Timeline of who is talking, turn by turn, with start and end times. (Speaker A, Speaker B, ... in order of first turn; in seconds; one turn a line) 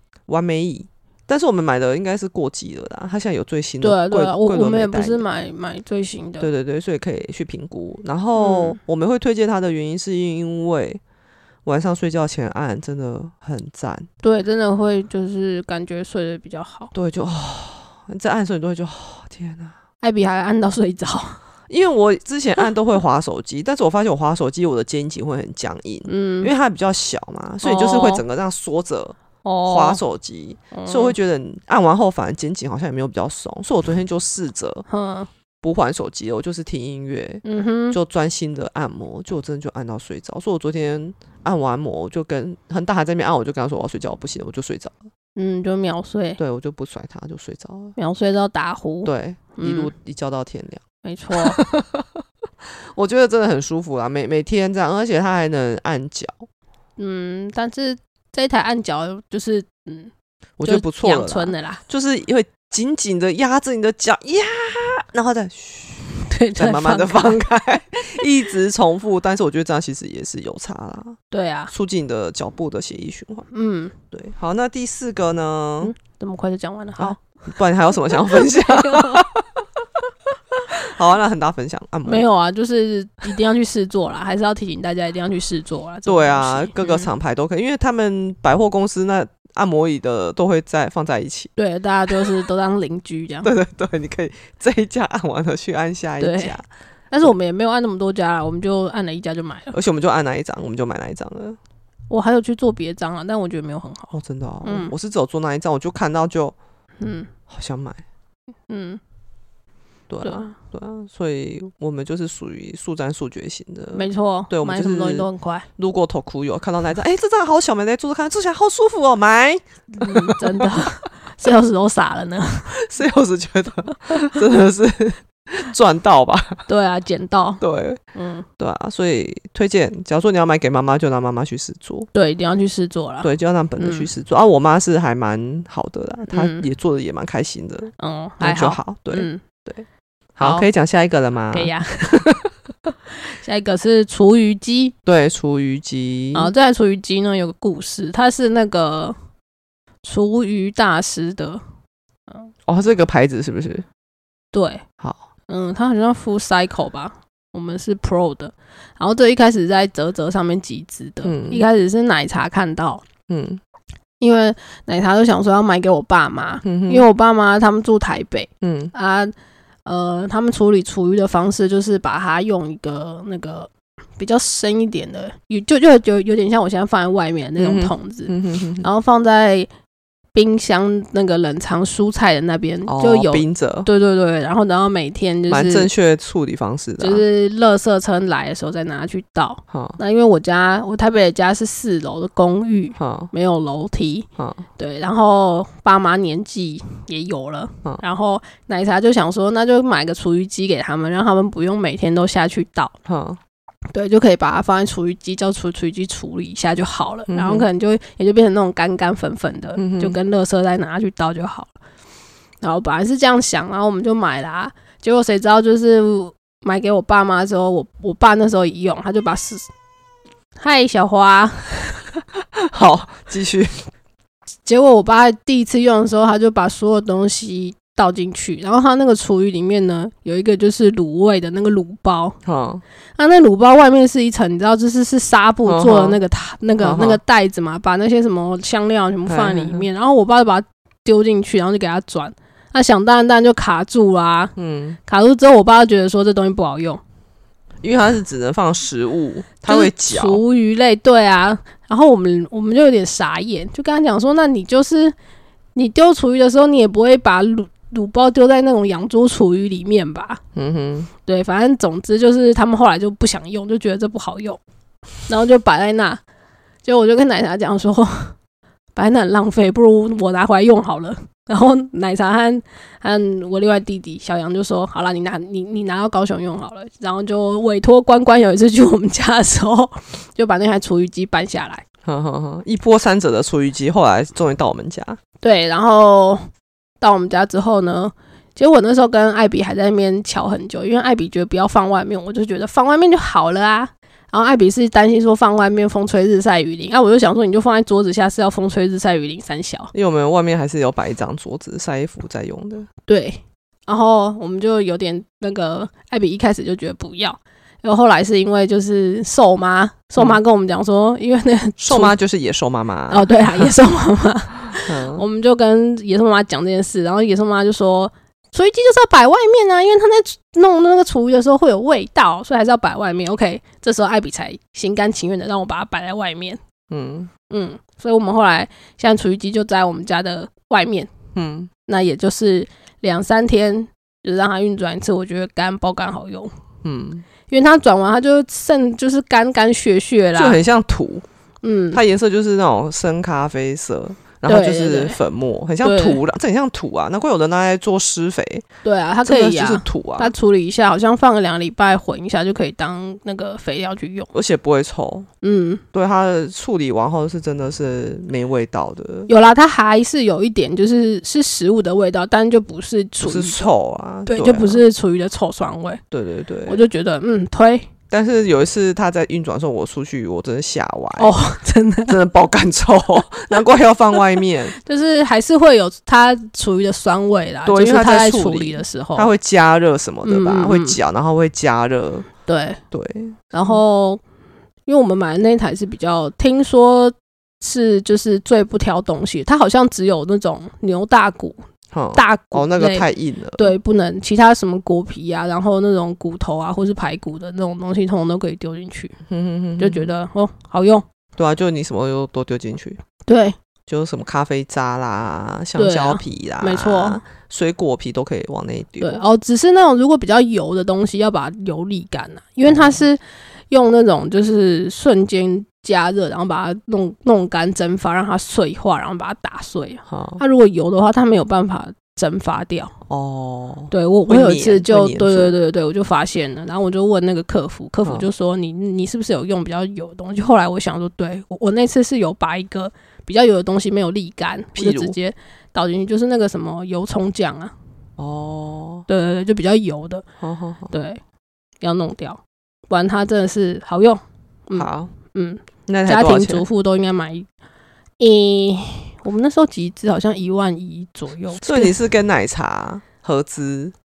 Speaker A: 0.3-5.2
Speaker B: 3.8-6.5
Speaker A: 6.4-11.0
Speaker B: 8.4-8.8
Speaker A: 11.6-14.1
Speaker B: 14.2-16.9
Speaker A: 16.9-19.8
Speaker B: 20.0-21.4
Speaker A: 21.7-34.9
Speaker B: 26.1-26.5
Speaker B: 27.6-28.2
Speaker B: 29.4-30.0
Speaker B: 30.7-31.1
Speaker B: 34.9-35.3
Speaker A: 35.6-45.0
Speaker B: 37.4-38.0
Speaker B: 45.4-46.4
Speaker A: 46.4-47.9
Speaker B: 48.0-49.9
Speaker A: 49.0-56.5
Speaker B: 51.0-51.6
Speaker B: 57.0-60.1
Speaker A: 60.6-71.2
Speaker B: 60.6-61.8
Speaker B: 66.2-67.4
Speaker B: 71.3-71.7
Speaker A: 71.7-73.5
Speaker B: 73.5-73.9
Speaker A: 74.1-75.9
Speaker B: 75.8-77.2
Speaker A: 77.0-79.6
Speaker B: 78.1-79.2
Speaker A: 80.7-82.3
Speaker B: 82.1-87.1
Speaker A: 86.1-91.5
Speaker B: 91.6-93.5
Speaker A: 93.4-96.6
Speaker B: 96.2-96.6
Speaker B: 97.1-99.8
Speaker A: 99.7-101.6
Speaker B: 102.1-104.9
Speaker A: 104.1-106.6
Speaker B: 107.0-107.3
Speaker A: 107.5-108.0
Speaker B: 108.7-109.0
Speaker A: 110.1-120.8
Speaker B: 110.2-110.5
Speaker B: 113.9-115.7
Speaker B: 119.9-122.8
Speaker A: 122.7-126.6
Speaker B: 126.7-127.6
Speaker A: 127.6-128.0
Speaker B: 128.1-128.4
Speaker A: 128.6-132.1
Speaker B: 132.1-134.1
Speaker A: 133.2-139.8
Speaker B: 136.3-136.7
Speaker B: 138.0-139.4
Speaker A: 140.4-142.5
Speaker B: 140.4-140.7
Speaker B: 141.5-142.3
Speaker B: 143.2-144.9
Speaker A: 145.1-146.5
Speaker B: 146.3-149.2
Speaker B: 150.0-151.6
Speaker A: 152.7-153.8
Speaker B: 154.5-154.8
Speaker B: 155.5-163.1
Speaker A: 161.2-161.7
Speaker A: 163.3-163.6
Speaker B: 164.2-169.3
Speaker A: 166.6-167.1
Speaker A: 168.6-168.9
Speaker B: 169.9-179.7
Speaker A: 177.6-178.9
Speaker B: 180.3-185.9
Speaker A: 182.9-183.9
Speaker A: 185.5-187.2
Speaker B: 187.0-202.9
Speaker A: 189.7-190.0
Speaker A: 193.0-193.3
Speaker A: 194.4-194.6
Speaker A: 203.1-203.4
Speaker B: 203.9-211.7
Speaker A: 207.3-207.7
Speaker A: 209.8-210.2
Speaker B: 212.6-219.7
Speaker B: 220.6-222.1
Speaker A: 222.6-223.8
Speaker B: 224.7-232.4
Speaker A: 232.4-232.8
Speaker B: 233.2-244.5
Speaker A: 235.7-236.2
Speaker A: 236.8-237.2
Speaker A: 239.3-239.9
Speaker A: 244.6-245.0
Speaker B: 245.1-247.0
Speaker A: 247.8-250.4
Speaker B: 249.7-255.1
Speaker B: 255.8-260.4
Speaker A: 260.6-261.1
Speaker B: 261.3-264.6
Speaker B: 265.3-266.2
Speaker B: 266.8-268.4
Speaker B: 268.9-281.9
Speaker A: 282.1-285.2
Speaker B: 285.4-286.5
Speaker B: 287.0-299.9
Speaker A: 299.9-302.9
Speaker B: 303.1-312.1
Speaker A: 311.8-313.7
Speaker B: 313.1-326.6
Speaker A: 314.8-315.2
Speaker A: 326.9-327.3
Speaker B: 327.5-331.1
Speaker A: 331.4-331.7
Speaker B: 331.9-336.5
Speaker A: 336.8-337.2
Speaker B: 337.5-340.6
Speaker A: 340.4-341.3
Speaker B: 341.6-342.0
Speaker A: 341.9-348.6
Speaker B: 344.4-345.2
Speaker B: 345.8-346.2
Speaker B: 348.8-354.3
Speaker A: 349.2-350.3
Speaker A: 354.3-355.3
Speaker B: 355.4-355.8
Speaker A: 355.9-359.3
Speaker B: 359.3-363.6
Speaker A: 363.2-364.8
Speaker B: 364.3-366.0
Speaker A: 366.1-366.8
Speaker B: 366.6-367.9
Speaker A: 368.1-371.4
Speaker B: 371.2-372.1
Speaker A: 372.1-374.8
Speaker B: 374.8-379.3
Speaker A: 377.6-382.3
Speaker B: 380.2-381.0
Speaker B: 382.4-382.8
Speaker A: 382.9-383.8
Speaker B: 383.5-384.2
Speaker B: 384.9-391.6
Speaker A: 391.9-393.7
Speaker B: 392.1-399.2
Speaker A: 399.3-400.1
Speaker B: 399.8-401.1
Speaker A: 401.4-403.0
Speaker B: 403.3-403.6
Speaker A: 403.9-409.2
Speaker B: 405.8-407.2
Speaker B: 409.0-422.9
Speaker A: 412.7-413.0
Speaker A: 420.1-420.4
Speaker A: 423.1-425.6
Speaker B: 423.9-437.7
Speaker A: 434.8-435.1
Speaker A: 438.2-439.1
Speaker B: 439.1-440.2
Speaker A: 440.4-440.9
Speaker B: 440.9-441.2
Speaker B: 441.8-447.5
Speaker A: 444.8-445.1
Speaker A: 445.9-446.6
Speaker B: 448.2-451.9
Speaker A: 451.6-453.9